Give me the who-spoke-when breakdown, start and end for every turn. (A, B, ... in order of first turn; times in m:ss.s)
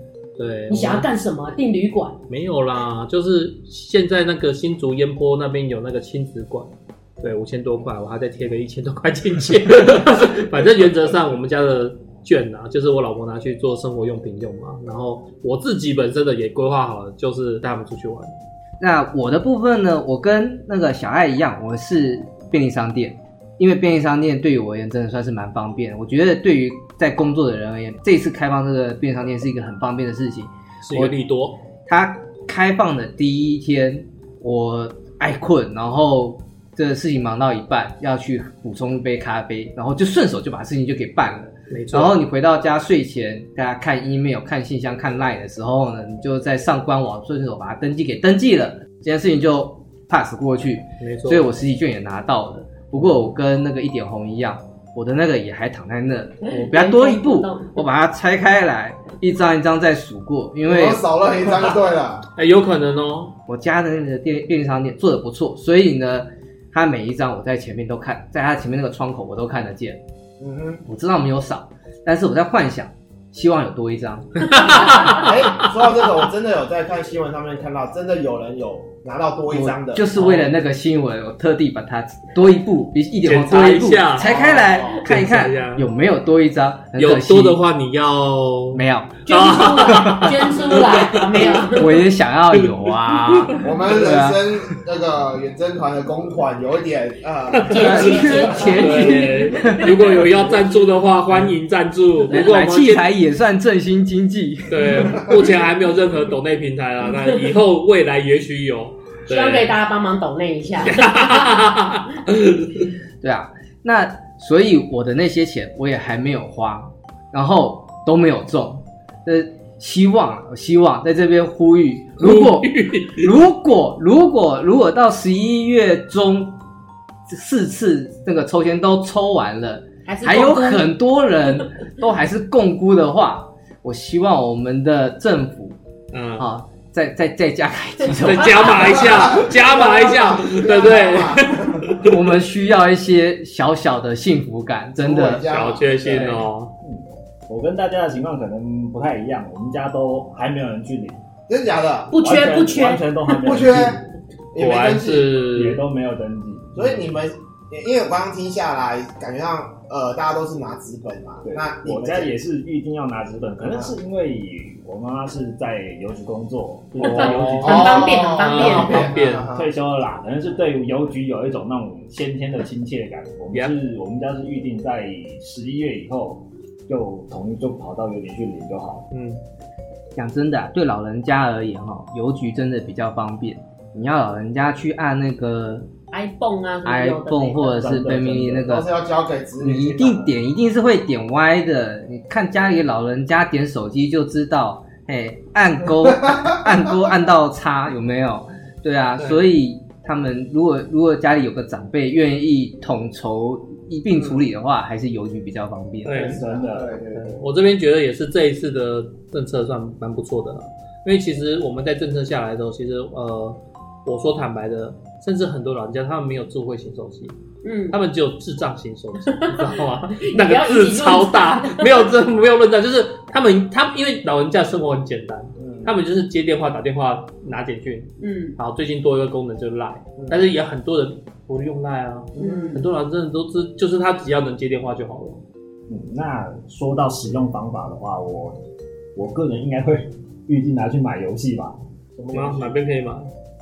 0:00.4-0:01.1 A
0:00.7-0:02.2 B
0:02.3-0:18.3 A
0:18.8-0:31.2 C
0:30.8-0:31.6 A
0:31.9-1:01.0 C
0:41.7-0:42.2 A
0:51.0-0:51.4 A
0:56.4-0:57.8 B
1:00.7-1:02.2 D
1:02.4-1:03.4 A
1:03.5-1:10.0 C
1:10.4-1:10.8 D
1:10.9-1:15.2 C
1:14.5-1:15.3 A
1:15.1-1:20.1 D
1:19.5-1:27.6 C
1:20.2-1:20.5 A
1:23.2-1:25.9 A
1:24.2-1:25.0 D
1:27.0-1:31.7 A
1:28.7-1:29.2 C
1:29.2-1:32.0 B
1:29.8-1:30.3 C
1:31.7-1:34.4 C
1:33.3-1:33.6 A
1:33.6-1:38.7 D
1:37.5-1:43.1 A
1:37.7-1:39.3 B
1:37.7-1:40.1 C
1:42.3-1:45.3 C
1:44.7-1:49.7 A
1:49.3-1:51.5 B
1:50.8-1:52.9 A
1:53.2-2:06.6 C
2:02.2-2:03.3 A
2:07.3-2:15.8 C
2:10.1-2:10.9 B
2:16.1-2:16.5 A
2:16.4-2:19.3 C
2:18.1-2:22.2 A
2:19.1-2:22.0 D
2:22.0-2:25.5 C
2:25.0-2:26.4 D
2:25.3-2:26.7 A
2:26.8-2:31.2 E
2:31.5-2:32.2 D
2:32.1-2:33.1 B
2:32.2-2:34.1 E
2:33.3-2:34.0 D
2:34.5-2:35.4 D
2:34.6-2:35.8 A
2:35.5-2:37.2 E
2:36.8-2:42.4 D
2:41.4-2:48.2 E
2:43.6-2:44.0 D
2:47.0-2:49.5 A
2:47.0-2:49.1 B
2:47.6-2:49.7 D
2:49.5-2:59.1 E
2:59.1-2:59.4 A
3:00.2-3:05.9 C
3:06.1-3:07.8 B
3:06.8-3:08.9 C
3:07.7-3:08.7 E
3:08.6-3:10.3 D
3:09.6-3:26.4 C
3:16.2-3:16.5 D
3:19.2-3:19.4 A
3:24.2-3:24.4 D
3:26.0-3:26.4 A
3:26.1-3:27.4 D
3:26.2-3:27.0 E
3:27.1-3:37.4 A
3:37.6-3:38.0 B
3:37.9-3:55.4 A
3:39.3-3:42.0 B
3:45.6-3:45.9 D
3:48.2-3:48.6 B
3:50.2-3:50.4 D
3:52.4-3:52.9 B
3:55.9-3:58.6 E
3:59.2-4:01.8 E
4:02.2-4:02.8 D
4:02.3-4:03.3 A